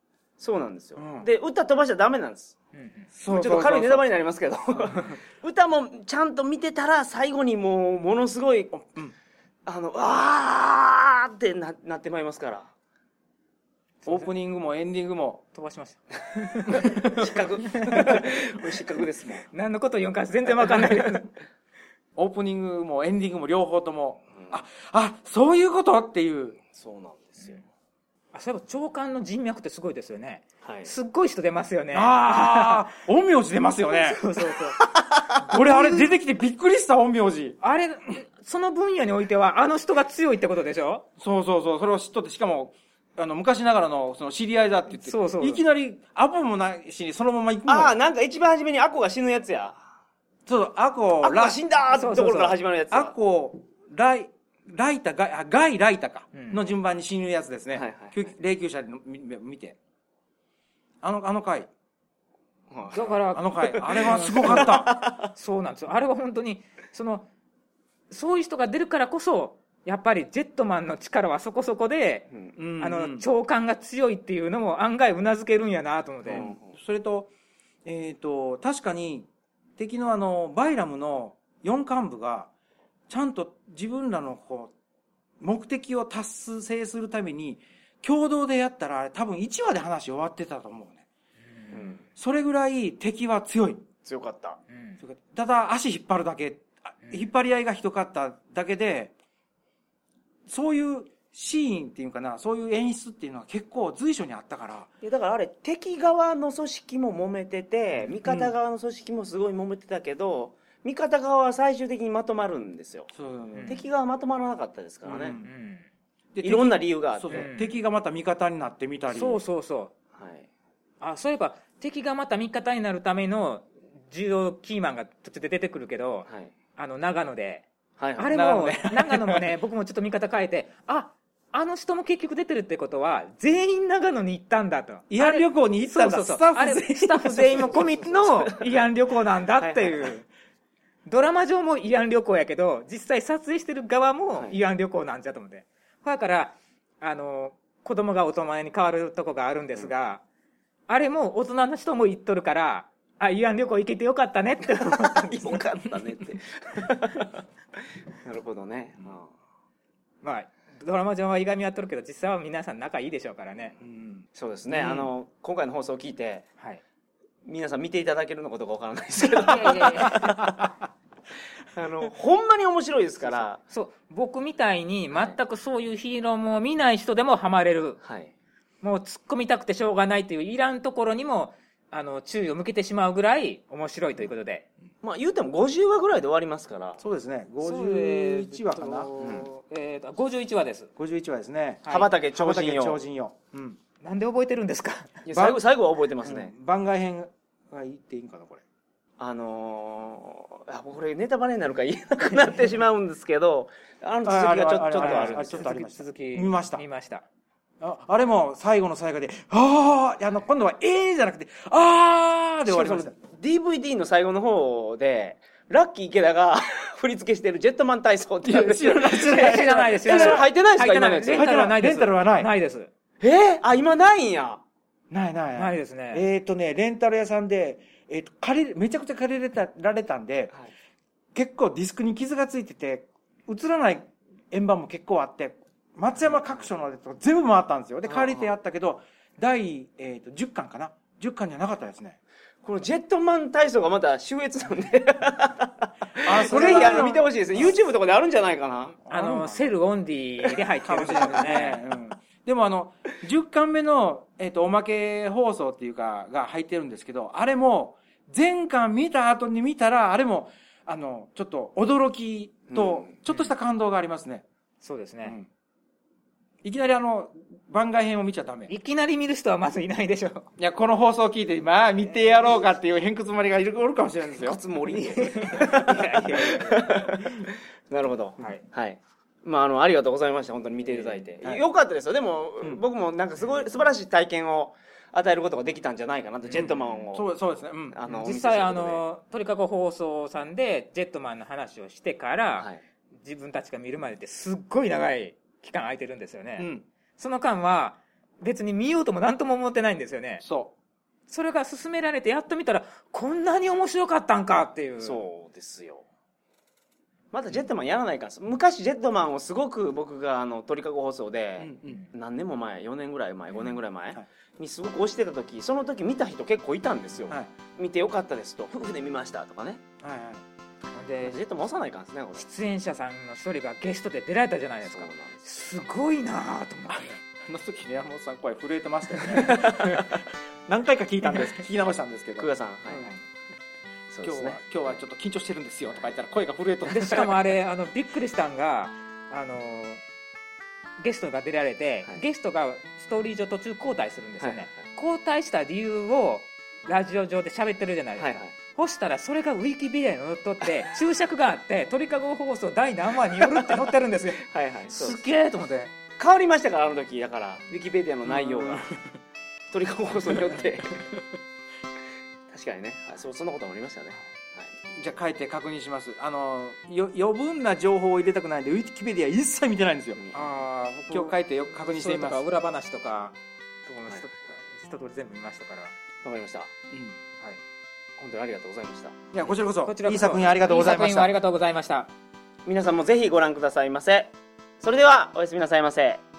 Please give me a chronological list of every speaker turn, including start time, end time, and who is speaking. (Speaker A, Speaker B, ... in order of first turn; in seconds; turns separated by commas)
Speaker A: 0.4-2.5, Speaker B: 1.0-1.3, Speaker C: 2.7-3.1, Speaker B: 3.1-4.0, Speaker A: 3.3-8.7, Speaker B: 8.7-9.1, Speaker A: 9.7-12.7, Speaker B: 14.1-15.4, Speaker C: 15.5-16.9, Speaker B: 16.7-17.4, Speaker A: 16.7-19.5, Speaker C: 17.7-18.2, Speaker B: 17.9-18.2, Speaker C: 19.5-21.3, Speaker B: 22.1-26.6, Speaker A: 26.7-27.6, Speaker C: 28.3-32.9, Speaker A: 30.6-30.9, Speaker B: 31.9-34.2, Speaker C: 33.9-34.8, Speaker B: 35.3-37.6, Speaker C: 35.4-36.1, Speaker C: 37.6-41.0, Speaker B: 41.2-47.9, Speaker C: 45.0-45.6, Speaker A: 47.7-49.8, Speaker B: 50.5-51.6, Speaker A: 51.2-53.1, Speaker C: 51.9-52.6, Speaker B: 52.9-59.8, Speaker C: 56.3-56.6, Speaker A: 57.7-58.3, Speaker B: 61.0-61.7, Speaker A: 62.7-63.2, Speaker C: 62.9-67.3, Speaker B: 63.0-65.0, Speaker A: 63.7-65.3, Speaker C: 68.1-76.5, Speaker B: 72.6-73.2, Speaker B: 76.3-77.3, Speaker A: 76.3-76.7, Speaker B: 77.8-82.5, Speaker B: 83.1-84.7, Speaker B: 85.4-91.0, Speaker A: 91.7-92.0, Speaker B: 92.1-93.8, Speaker A: 94.0-94.6, Speaker C: 94.7-95.0, Speaker B: 95.0-99.1, Speaker B: 100.5-104.9, Speaker A: 105.0-113.1, Speaker B: 108.2-108.5, Speaker B: 113.1-113.8, Speaker A: 113.7-115.4, Speaker B: 115.0-115.5, Speaker C: 115.4-115.8, Speaker B: 116.3-119.4, Speaker A: 116.4-117.5, Speaker C: 117.3-117.7, Speaker C: 119.1-119.9, Speaker A: 120.2-120.5, Speaker C: 121.0-127.7, Speaker A: 128.0-128.3, Speaker C: 128.2-140.2, Speaker B: 128.3-129.5, Speaker B: 135.1-138.1, Speaker A: 138.0-138.7, Speaker A: 139.6-140.1, Speaker C: 141.1-150.2, Speaker C: 150.9-155.9, Speaker A: 155.1-157.4, Speaker A: 158.2-159.3, Speaker C: 160.2-163.8, Speaker B: 163.8-164.2, Speaker A: 164.3-166.4, Speaker A: 167.4-170.5, Speaker C: 169.4-170.3, Speaker B: 170.1-170.7, Speaker A: 171.7-173.6, Speaker C: 173.7-178.0, Speaker A: 178.0-178.3, Speaker C: 178.8-184.7, Speaker A: 185.0-187.0, Speaker B: 187.0-189.1, Speaker C: 187.6-190.9, Speaker A: 189.2-189.5, Speaker B: 191.0-193.8, Speaker C: 191.8-192.1, Speaker A: 191.9-193.0, Speaker C: 194.0-195.2, Speaker A: 195.2-196.5, Speaker B: 195.3-195.6, Speaker B: 196.2-198.6, Speaker A: 199.2-205.7, Speaker B: 204.2-206.8, Speaker C: 205.0-207.2, Speaker B: 207.8-213.1, Speaker A: 212.7-221.6, Speaker B: 218.4-220.4, Speaker C: 219.0-222.9, Speaker B: 221.3-222.5, Speaker A: 223.2-224.6, Speaker B: 225.1-230.5, Speaker C: 225.6-226.2, Speaker B: 231.3-242.2, Speaker A: 238.1-238.5, Speaker A: 242.6-249.0, Speaker B: 246.2-247.7, Speaker B: 249.1-249.7, Speaker C: 249.1-251.8, Speaker B: 250.8-264.4, Speaker A: 262.7-263.1, Speaker C: 263.3-263.5, Speaker C: 264.8-265.4, Speaker B: 266.6-268.7, Speaker C: 268.7-270.5, Speaker B: 270.6-274.6, Speaker A: 274.4-287.3, Speaker C: 275.2-277.4, Speaker B: 287.1-288.0, Speaker A: 287.9-289.0, Speaker C: 288.1-292.7, Speaker C: 293.2-300.4, Speaker B: 296.6-296.8, Speaker B: 300.4-300.7, Speaker C: 301.3-305.2, Speaker A: 305.0-306.0, Speaker A: 307.3-319.8, Speaker B: 311.6-312.0, Speaker B: 320.0-320.4, Speaker C: 320.9-321.4, Speaker A: 321.2-322.4, Speaker C: 322.4-327.2, Speaker A: 324.8-325.4, Speaker B: 327.4-333.2, Speaker C: 329.2-329.6, Speaker A: 332.4-333.1, Speaker A: 334.1-334.9, Speaker B: 334.2-337.4, Speaker C: 336.9-340.0, Speaker C: 341.0-355.9, Speaker A: 344.4-344.7, Speaker A: 348.2-348.5, Speaker A: 353.6-353.8, Speaker A: 354.4-355.2, Speaker A: 356.2-358.9, Speaker B: 358.3-359.0, Speaker A: 359.7-361.1, Speaker A: 362.5-364.7, Speaker B: 364.9-370.2, Speaker C: 370.3-373.3, Speaker B: 371.1-372.4, Speaker C: 373.9-375.9, Speaker A: 376.2-376.7, Speaker B: 376.9-377.1, Speaker A: 378.2-379.1, Speaker B: 379.3-381.3, Speaker C: 379.8-382.1, Speaker A: 382.6-386.2